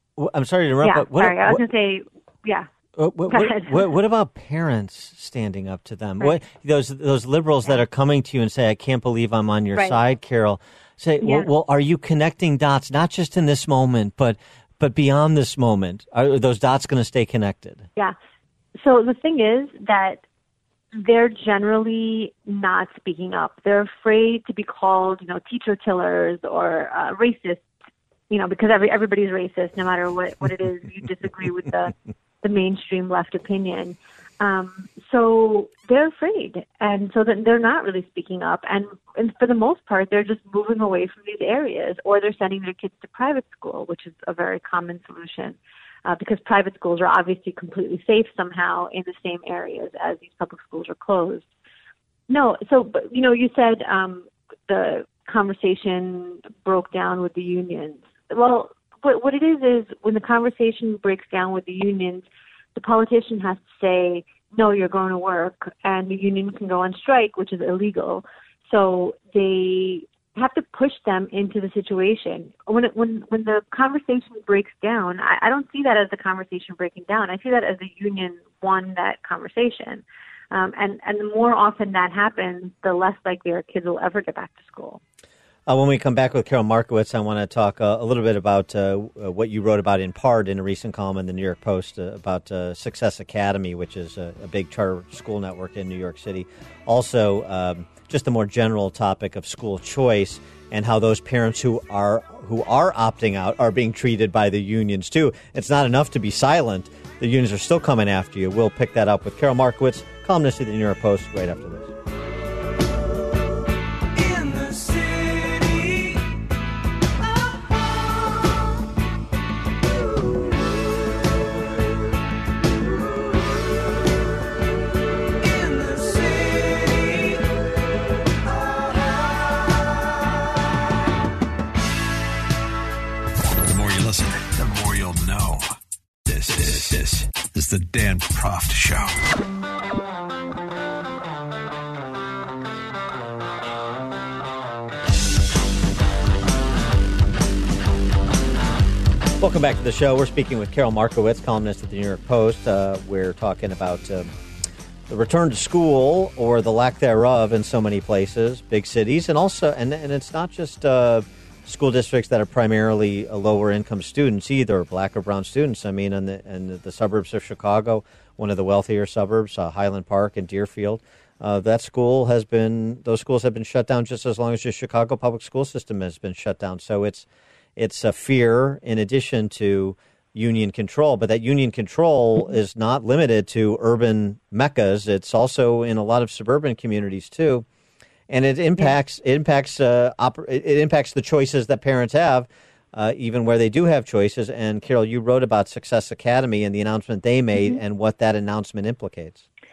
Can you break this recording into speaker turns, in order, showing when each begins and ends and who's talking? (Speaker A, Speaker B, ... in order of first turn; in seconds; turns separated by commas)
Speaker A: 0.2-1.6, Speaker B: 0.8-2.7, Speaker A: 3.0-17.9, Speaker B: 3.3-3.9, Speaker B: 11.2-11.5, Speaker B: 18.8-20.2, Speaker B: 20.9-27.7, Speaker B: 28.3-51.5, Speaker B: 52.3-85.0, Speaker A: 85.7-111.9, Speaker C: 133.6-135.6, Speaker C: 136.2-139.1, Speaker A: 149.4-154.3, Speaker A: 155.1-187.6, Speaker A: 188.3-199.4, Speaker B: 197.6-197.8